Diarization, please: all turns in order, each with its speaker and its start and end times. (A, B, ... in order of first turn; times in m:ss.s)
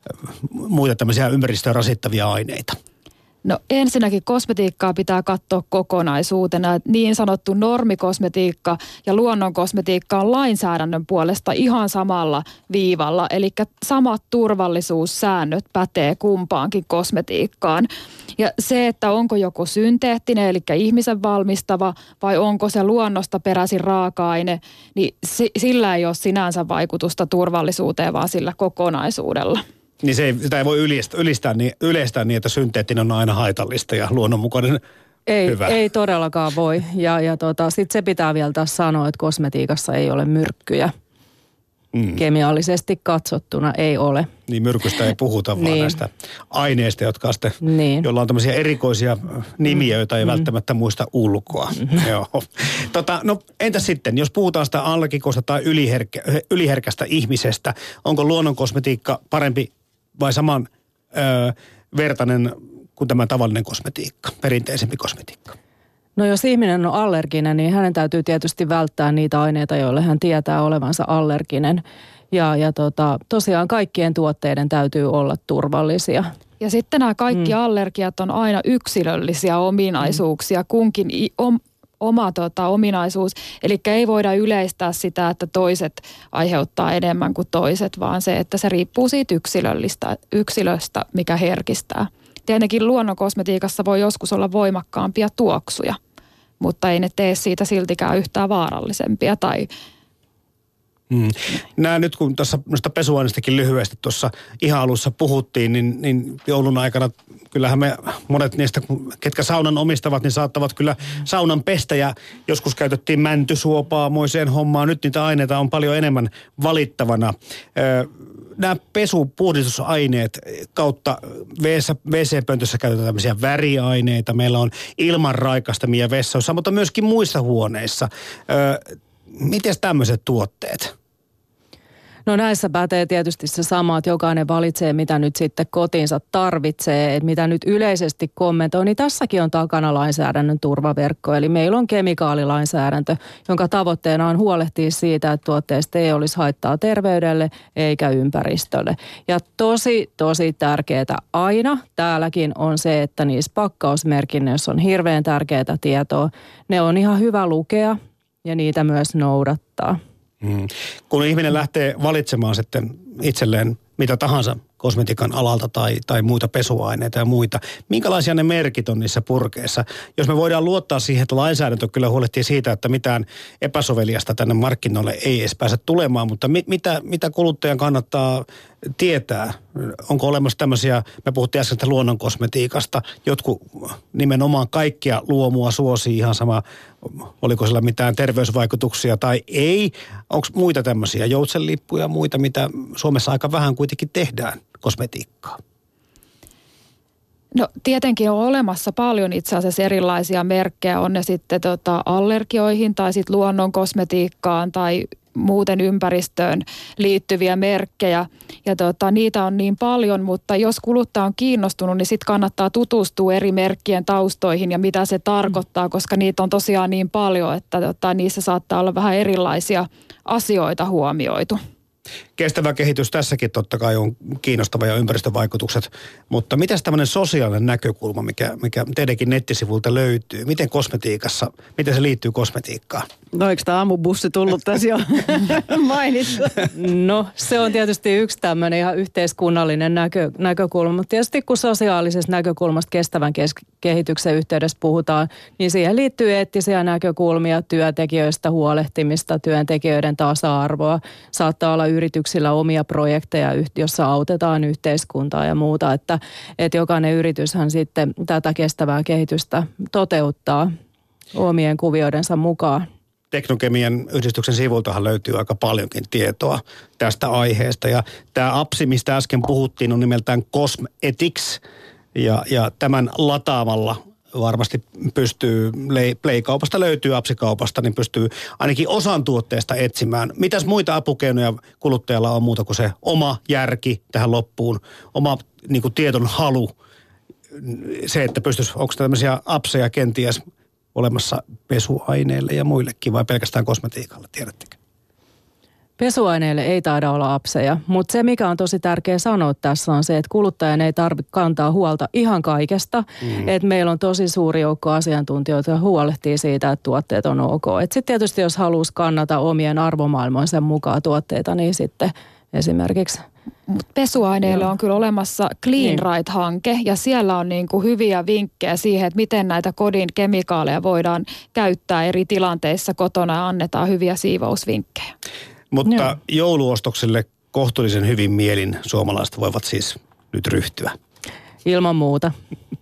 0:00.4-0:02.8 A
0:03.4-0:29.6 B
0:30.0-0:34.8 A
0:35.3-0:40.9 C
0:35.4-0:35.7 A
0:41.9-0:42.2 A
0:42.1-0:44.3 C
0:44.5-1:05.6 A
0:45.6-0:46.0 C
0:47.6-0:48.0 C
1:06.2-1:16.3 C
1:16.6-1:36.0 B
1:36.6-1:39.7 B
1:41.1-2:08.8 A
2:09.3-2:10.9 A
2:12.2-2:40.0 C
2:40.4-3:15.6 A
3:17.5-3:41.6 B
3:42.4-3:53.0 A
3:53.3-3:56.7 D
3:56.7-4:20.7 C
4:21.3-4:22.8 C
4:23.3-4:31.6 A
4:32.1-4:46.7 A
4:47.6-4:50.4 A
4:50.9-4:54.8 A
4:56.0-5:13.2 C
5:13.7-5:25.1 B
5:15.8-5:16.0 C
5:25.7-5:31.0 A
5:31.6-5:32.3 C